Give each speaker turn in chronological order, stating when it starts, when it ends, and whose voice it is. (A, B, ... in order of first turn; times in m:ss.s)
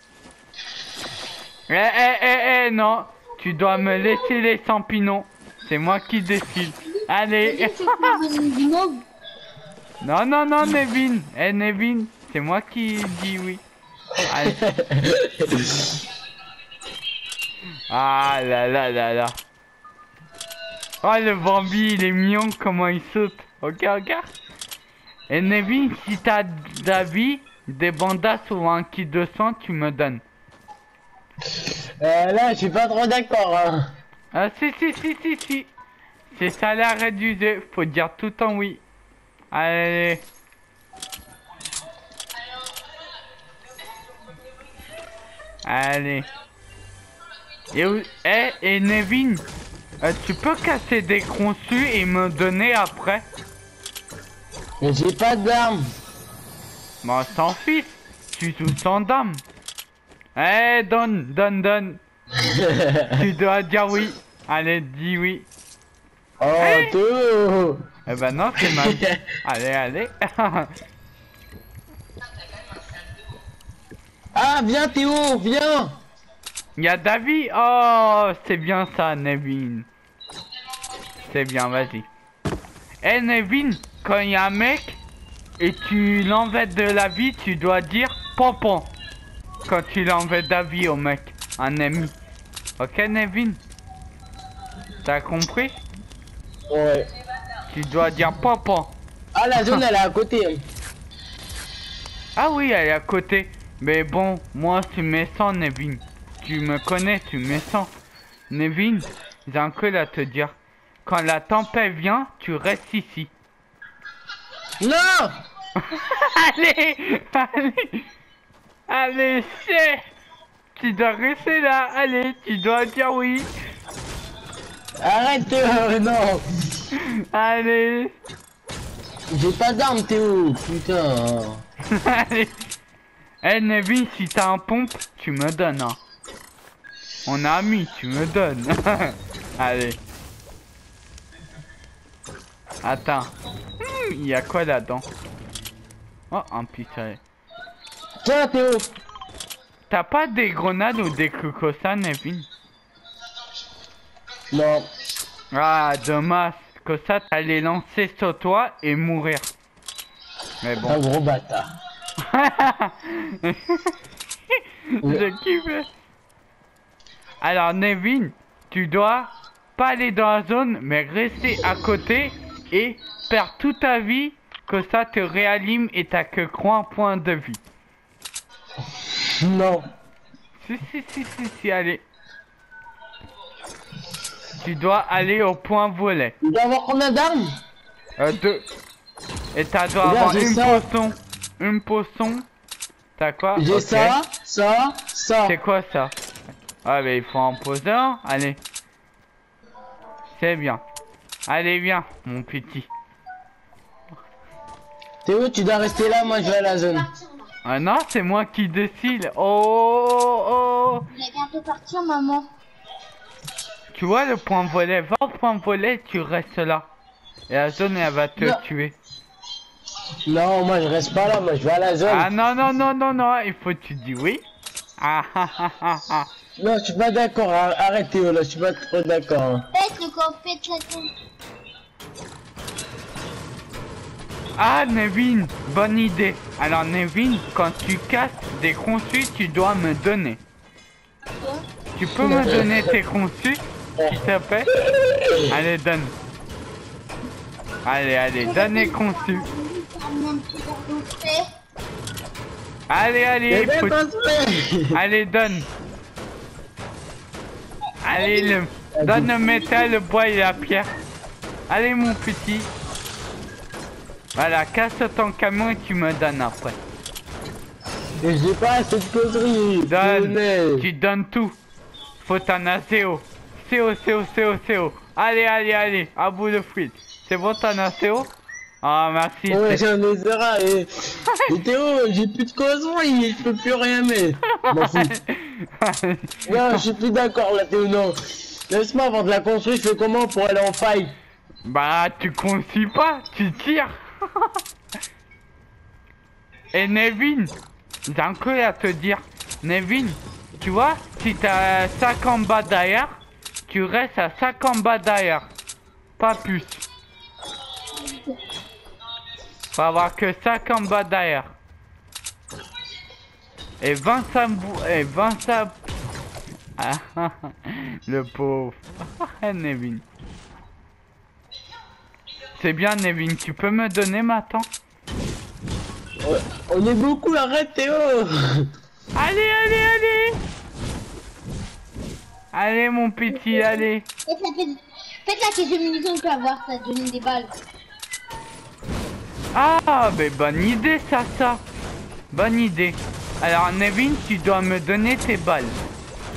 0:01.7-0:08.2 A
0:07.4-0:09.1 B
0:10.0-0:13.6 A
0:14.3-0:14.6 A
0:14.4-0:15.9 C
0:17.9-0:19.4 A
0:21.0-0:24.3 A
0:25.3-0:30.2 A
0:32.0-0:33.8 C
0:34.3-0:35.7 A
0:36.3-0:38.8 A
0:39.5-0:40.2 A
0:45.6-0:46.3 A
0:47.7-0:49.5 A
0:50.0-0:53.3 A
0:54.8-0:55.9 C
0:57.0-0:59.4 A
1:00.4-1:02.0 A
1:02.4-1:03.1 C
1:03.1-1:05.5 A
1:06.4-1:07.8 C
1:06.6-1:06.9 A
1:08.1-1:10.7 A
1:08.6-1:09.2 C
1:14.4-1:15.9 C
1:16.8-1:19.9 A
1:21.3-1:22.1 A
1:23.0-1:25.0 A
1:25.6-1:28.9 A
1:29.6-1:32.1 A
1:32.8-1:33.6 A
1:35.0-1:35.8 A
1:36.7-1:37.1 C
1:37.7-1:39.0 A
1:39.4-1:40.6 C
1:42.4-1:47.9 A
1:48.5-1:53.3 A
1:54.8-1:55.3 C
1:55.8-1:58.0 A
1:58.9-2:00.0 A
2:00.8-2:03.5 A
2:05.0-2:06.4 C
2:06.9-2:08.2 A
2:09.3-2:11.6 C
2:11.9-2:12.6 A
2:13.4-2:16.0 A
2:17.3-2:20.0 A
2:22.8-2:25.1 A
2:26.3-2:27.2 A
2:28.2-2:28.9 C
2:29.9-2:32.5 A
2:34.5-2:34.9 C
2:35.5-2:39.5 A
2:40.6-2:41.0 A
2:40.8-2:41.7 C
2:42.2-2:43.9 A
2:44.9-2:45.9 A
2:47.4-2:57.6 A
2:59.1-2:59.8 C
3:00.6-3:02.0 A
3:04.6-3:06.3 A
3:06.4-3:07.5 C
3:08.2-3:08.6 A
3:09.5-3:12.5 A
3:10.0-3:10.8 C
3:13.2-3:14.2 A
3:13.6-3:15.6 C
3:15.4-3:16.1 A
3:16.8-3:18.6 A
3:20.3-3:20.8 A
3:21.5-3:22.9 A
3:25.2-3:27.1 C
3:26.5-3:27.2 B
3:27.6-3:31.1 A
3:31.1-3:32.5 B
3:33.9-3:36.9 A
3:37.5-3:39.0 A
3:40.3-3:42.3 C
3:42.1-3:44.4 A
3:45.0-3:46.3 A
3:46.6-3:49.7 C
3:49.7-3:51.1 B
3:54.6-4:00.4 A
4:01.4-4:01.6 B
4:02.0-4:03.6 A
4:02.2-4:02.9 C
4:04.2-4:04.7 A
4:04.9-4:05.5 C
4:05.5-4:06.1 A
4:07.8-4:09.5 A
4:08.4-4:11.5 B
4:12.9-4:14.0 A
4:13.5-4:15.0 C
4:14.9-4:15.7 A
4:18.0-4:20.9 A
4:18.2-4:18.6 B
4:18.9-4:19.3 C
4:19.4-4:20.0 B
4:21.7-4:22.7 A
4:24.4-4:26.8 A
4:28.2-4:30.9 C
4:29.8-4:31.6 A
4:32.2-4:39.8 A
4:39.5-4:45.2 C
4:44.6-4:46.8 A
4:46.5-4:51.1 C
4:51.6-4:54.5 A
4:56.7-4:57.6 A
4:58.1-5:05.5 A
5:06.2-5:06.8 A
5:09.8-5:11.6 A
5:13.8-5:15.8 A
5:16.8-5:20.0 A
5:22.6-5:24.7 A
5:26.2-5:28.7 C
5:29.2-5:30.4 A
5:32.5-5:34.0 A
5:33.4-5:37.5 B
5:39.5-5:41.6 A
5:42.3-5:45.8 A